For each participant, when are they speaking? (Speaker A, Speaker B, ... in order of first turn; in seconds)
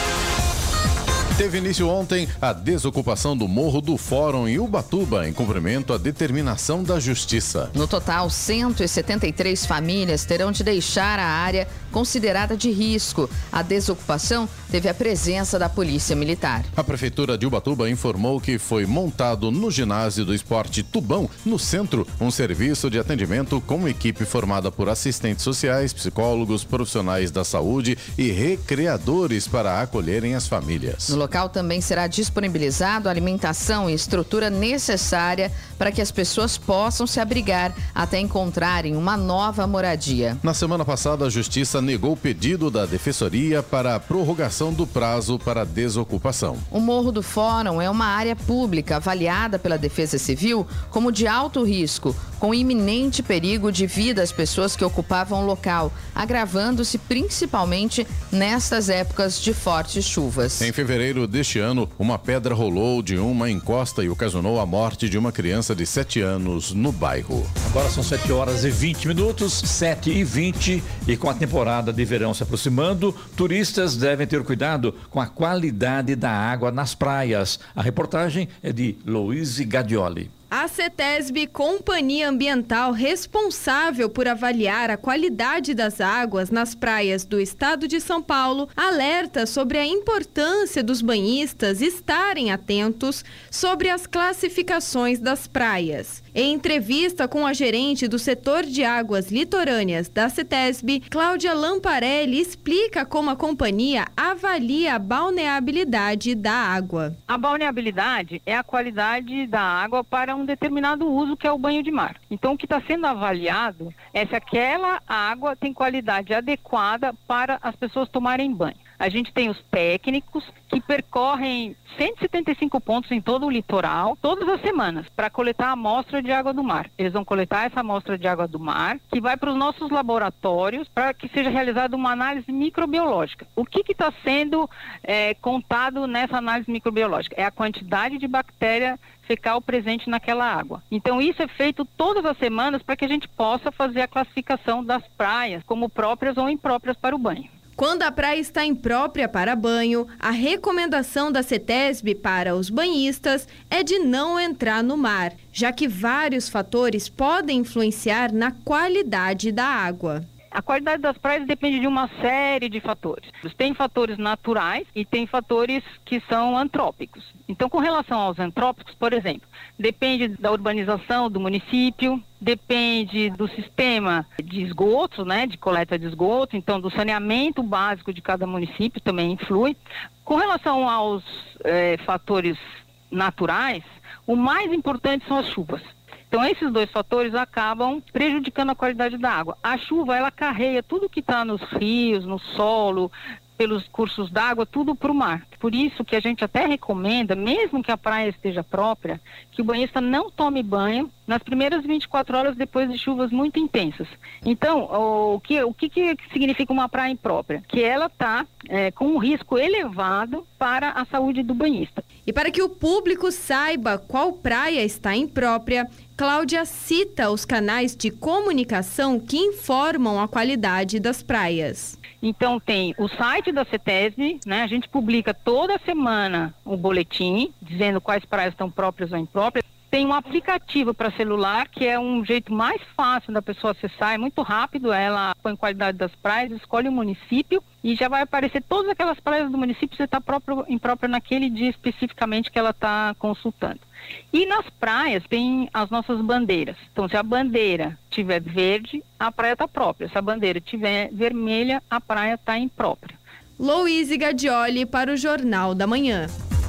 Speaker A: 1.4-7.7, 16.8-31.2, 40.4-46.7, 60.6-67.5
Speaker B: 7.7-16.7, 31.1-40.4, 46.7-60.7
Speaker C: 67.6-80.3
Speaker D: 80.5-107.2, 147.8-160.3, 212.3-222.0, 253.6-256.3
Speaker E: 107.3-147.5, 160.5-212.0, 222.2-253.2